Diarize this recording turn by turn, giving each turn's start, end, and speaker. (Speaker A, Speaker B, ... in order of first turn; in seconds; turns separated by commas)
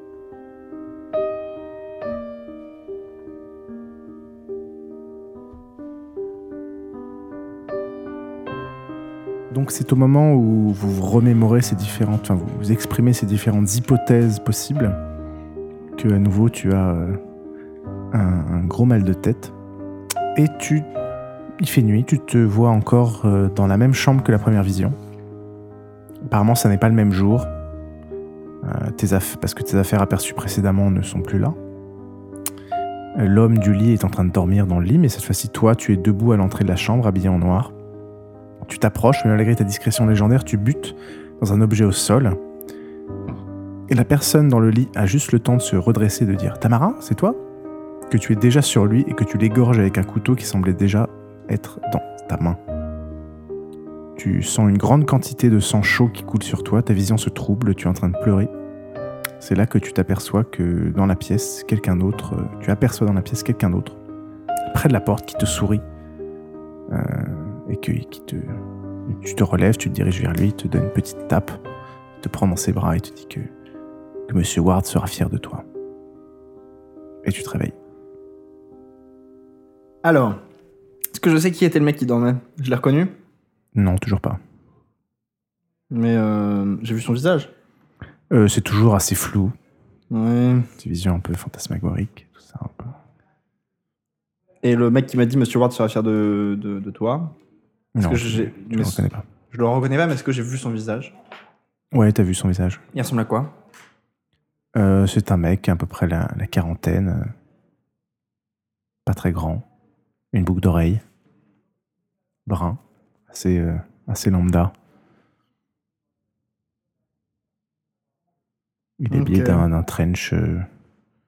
Speaker A: 9.5-15.0, Speaker A: 15.9-17.2, Speaker A: 18.1-19.5, Speaker A: 20.3-20.9, Speaker A: 21.6-24.9, Speaker A: 26.2-27.5, Speaker A: 28.6-31.6, Speaker A: 33.1-37.7, Speaker A: 38.6-42.4, Speaker A: 43.9-47.4, Speaker A: 48.1-52.6, Speaker A: 54.1-58.5, Speaker A: 59.4-64.0, Speaker A: 64.7-65.8, Speaker A: 66.9-71.6, Speaker A: 72.2-73.5, Speaker A: 74.3-75.6, Speaker A: 77.2-77.7, Speaker B: 80.0-80.4, Speaker B: 81.1-83.1, Speaker A: 83.7-84.4, Speaker B: 85.9-87.5, Speaker A: 88.3-89.5, Speaker B: 90.1-90.7, Speaker A: 90.8-93.0, Speaker B: 94.6-97.3, Speaker A: 98.0-99.2, Speaker B: 98.0-101.1, Speaker A: 101.9-102.8, Speaker B: 102.9-103.5, Speaker A: 104.7-107.3, Speaker A: 109.0-109.6, Speaker A: 110.3-111.0, Speaker A: 112.4-114.7, Speaker A: 119.0-120.7, Speaker B: 119.1-119.7